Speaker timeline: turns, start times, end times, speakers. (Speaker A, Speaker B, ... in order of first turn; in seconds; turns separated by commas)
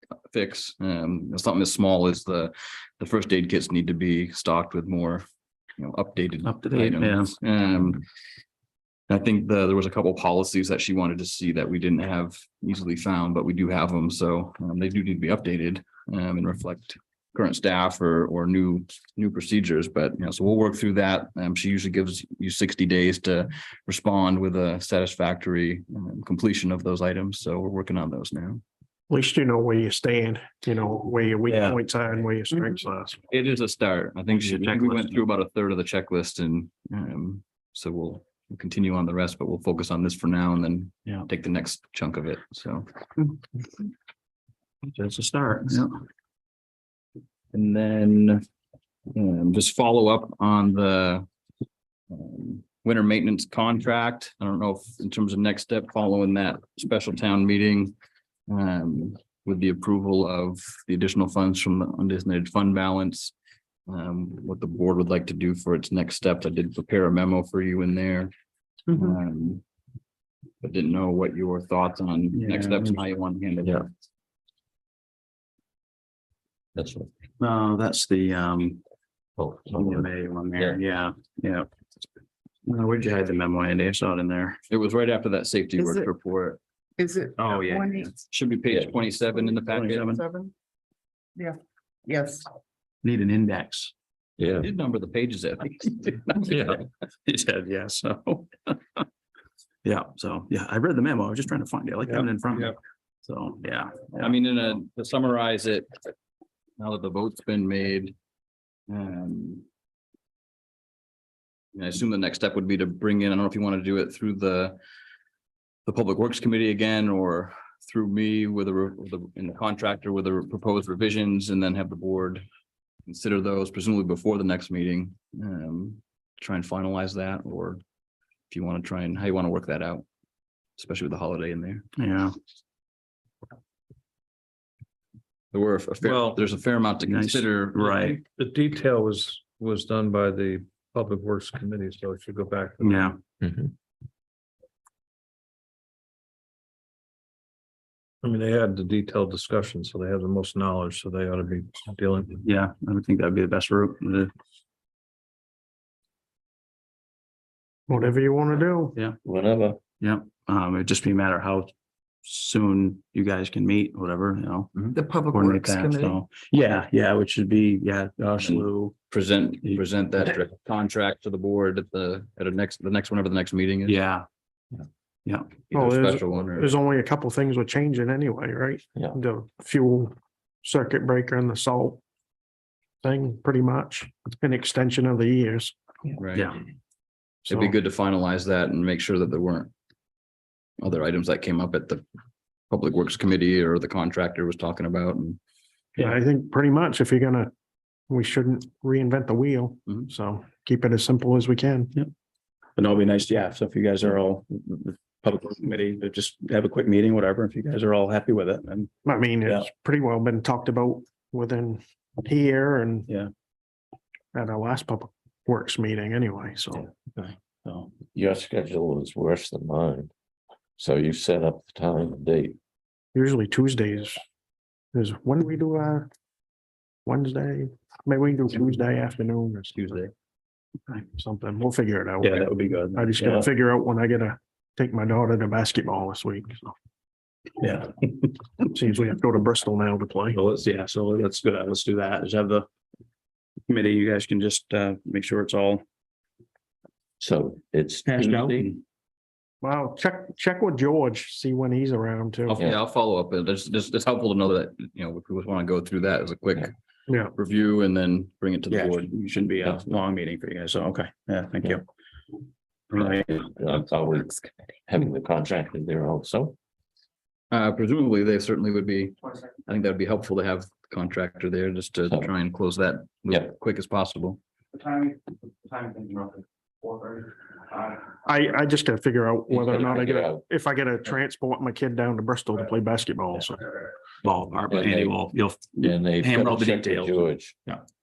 Speaker A: 0.3-5.2, Speaker A: 5.8-8.0, Speaker B: 6.4-7.3, Speaker A: 9.1-28.6, Speaker C: 29.1-33.2, Speaker B: 31.5-31.8, Speaker A: 33.3-42.9, Speaker B: 34.3-35.2, Speaker B: 44.9-45.9, Speaker A: 47.5-48.4, Speaker A: 49.1-51.2, Speaker A: 52.1-58.0, Speaker A: 58.5-63.3, Speaker A: 63.9-68.3, Speaker A: 68.9-69.6, Speaker A: 70.6-73.9, Speaker B: 72.3-73.0, Speaker D: 76.8-77.1, Speaker B: 77.4-78.8, Speaker D: 79.4-80.8, Speaker B: 79.7-81.7, Speaker B: 82.7-84.6, Speaker A: 84.7-86.6, Speaker E: 85.8-86.1, Speaker E: 87.0-88.1, Speaker B: 87.4-88.1, Speaker A: 88.3-90.2, Speaker E: 89.4-90.5, Speaker B: 89.7-90.2, Speaker E: 91.4-92.5, Speaker B: 93.0-93.9, Speaker D: 94.4-94.7, Speaker A: 94.6-96.6, Speaker D: 96.5-96.8, Speaker B: 96.5-99.0, Speaker B: 99.8-104.3, Speaker F: 102.1-102.8, Speaker A: 104.2-105.9, Speaker A: 106.8-108.2, Speaker A: 108.9-109.7, Speaker A: 111.8-114.8, Speaker A: 115.9-122.5, Speaker A: 123.0-127.8, Speaker A: 128.5-130.0, Speaker A: 130.8-131.8, Speaker B: 132.0-132.3, Speaker A: 135.5-137.9, Speaker F: 136.0-136.5, Speaker B: 137.0-138.2, Speaker F: 137.8-143.2, Speaker B: 142.8-143.2, Speaker F: 148.2-152.4, Speaker B: 152.4-154.3, Speaker C: 157.9-158.9, Speaker D: 159.2-159.8, Speaker B: 160.0-161.7, Speaker B: 162.2-168.9, Speaker E: 164.9-166.2, Speaker A: 168.4-174.0, Speaker B: 173.8-174.2, Speaker B: 175.2-175.5, Speaker A: 175.7-176.8, Speaker C: 175.7-182.0, Speaker C: 183.0-185.8, Speaker A: 186.2-186.5, Speaker A: 187.4-189.7, Speaker C: 187.5-187.8, Speaker A: 190.8-192.0, Speaker A: 192.7-195.4, Speaker C: 196.0-197.5, Speaker C: 198.1-201.9, Speaker B: 202.8-208.9, Speaker C: 209.0-213.1, Speaker C: 214.3-216.9, Speaker B: 216.7-217.9, Speaker D: 218.1-220.1, Speaker D: 220.8-222.6, Speaker C: 223.1-224.2, Speaker C: 224.9-226.1, Speaker C: 227.0-230.0, Speaker A: 229.8-230.1, Speaker C: 231.1-236.7, Speaker B: 232.2-233.5, Speaker B: 237.6-238.3, Speaker C: 238.6-240.4, Speaker B: 240.3-242.7, Speaker B: 243.7-245.8, Speaker D: 247.2-248.7, Speaker B: 248.1-248.8, Speaker C: 249.6-252.6, Speaker A: 252.5-256.7, Speaker C: 257.1-257.3, Speaker A: 257.3-259.1, Speaker B: 258.7-261.9, Speaker B: 262.9-263.5, Speaker D: 263.0-266.6, Speaker A: 267.5-269.1, Speaker A: 269.7-274.4, Speaker B: 274.7-278.0, Speaker C: 278.2-283.7, Speaker D: 279.5-280.4, Speaker B: 284.2-287.8, Speaker D: 284.7-285.2, Speaker D: 285.8-287.6